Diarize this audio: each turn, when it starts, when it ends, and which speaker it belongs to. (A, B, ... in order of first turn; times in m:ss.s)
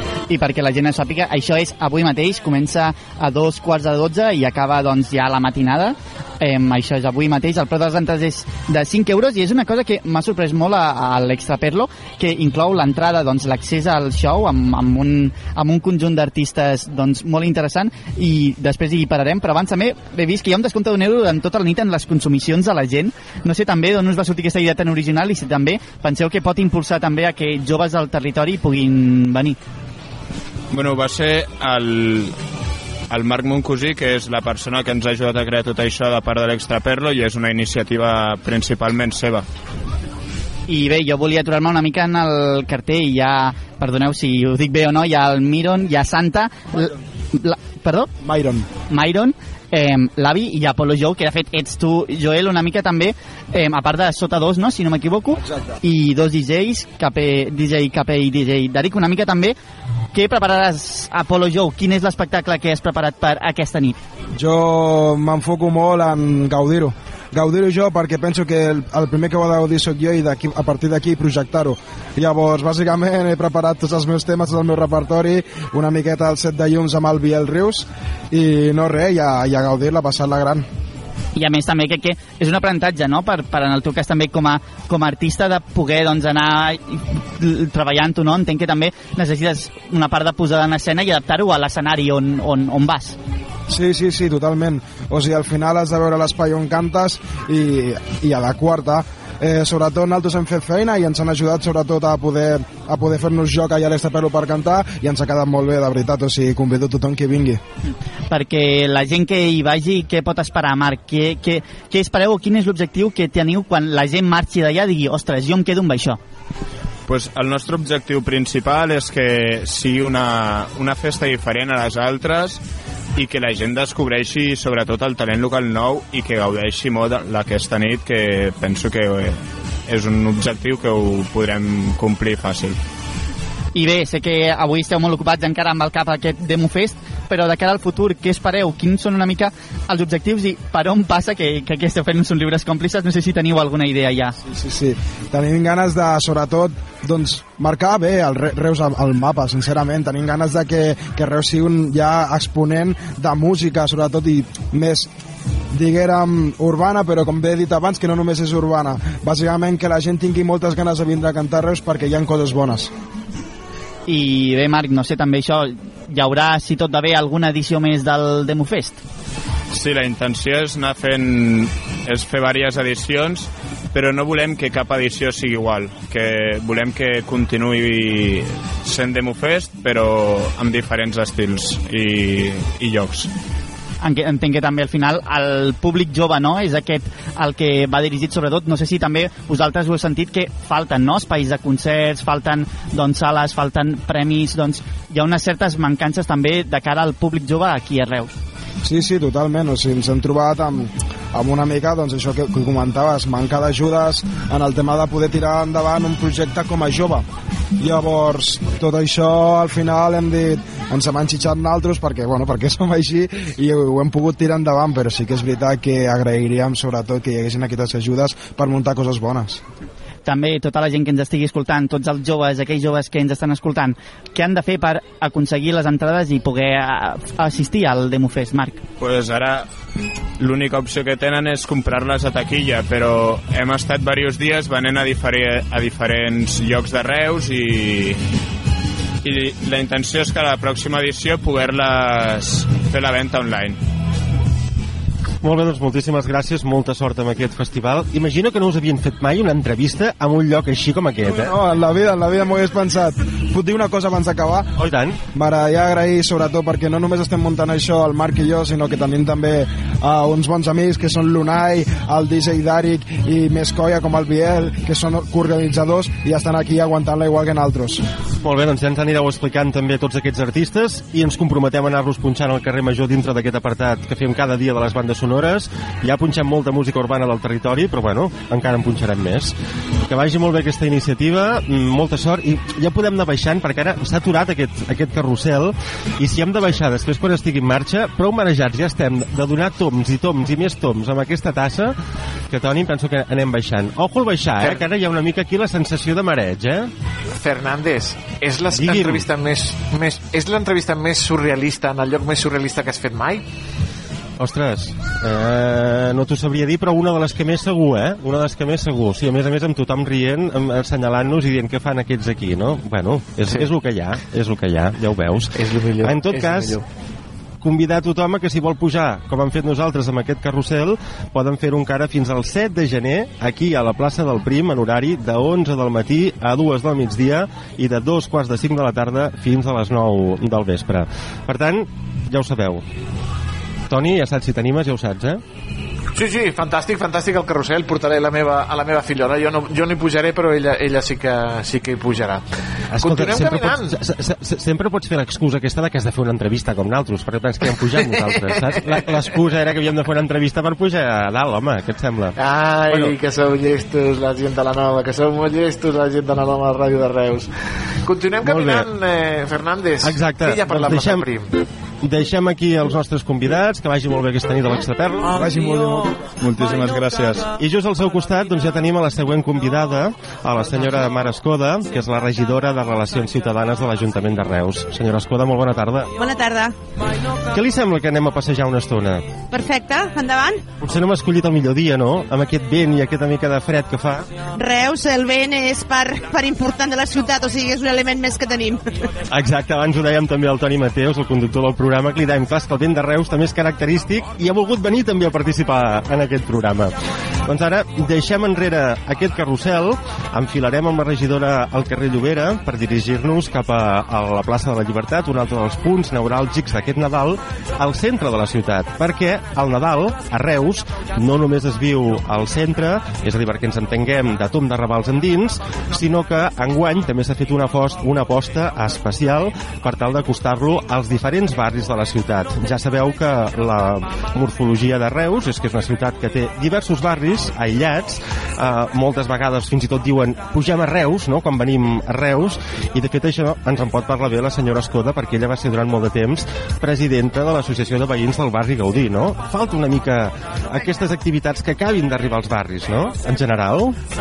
0:00.3-0:29.6 A
0:30.7-0:32.3 B
0:33.1-0:39.4 B
0:40.7-0:48.1 A
0:48.2-0:48.7 C
0:48.9-0:59.5 A
1:00.1-1:04.0 A
1:04.3-1:20.6 C
1:21.4-1:33.2 A
1:33.7-1:47.6 C
1:48.3-1:56.2 A
1:57.1-2:02.6 B
2:03.2-2:12.8 B
2:13.7-2:24.3 A
2:24.4-2:35.1 C
2:35.7-2:42.9 C
2:44.1-2:49.0 A
2:49.7-3:03.3 B
3:04.0-3:18.3 A
3:18.8-3:27.2 C
3:27.8-3:39.6 C
3:40.2-3:48.8 A
3:49.0-3:49.7 B
3:50.4-3:58.2 B
3:59.2-4:03.8 B
4:05.4-4:11.5 D
4:11.2-4:14.7 C
4:14.8-4:15.2 D
4:15.3-4:28.0 C
4:28.4-4:39.5 D
4:40.0-4:52.0 D
4:52.5-4:56.9 D
4:54.6-4:54.8 E
4:57.4-5:03.4 E
4:58.7-4:59.2 D
5:04.4-5:16.8 D
5:13.4-5:13.7 E
5:15.5-5:16.8 E
5:17.6-5:32.8 D
5:33.9-5:35.4 D
5:36.1-5:44.0 E
5:42.9-5:52.4 D
5:47.8-5:49.3 E
5:52.4-5:57.5 E
5:52.9-5:53.1 D
5:58.0-6:01.5 E
5:58.4-5:58.9 D
6:00.0-6:01.3 D
6:02.0-6:05.4 D
6:05.3-6:06.2 C
6:06.4-6:07.4 B
6:07.5-6:16.1 D
6:16.2-6:16.7 F
6:17.5-6:19.4 D
6:19.5-6:20.6 F
6:20.8-6:24.4 D
6:24.5-6:28.9 F
6:29.3-6:36.9 D
6:37.4-7:24.0 D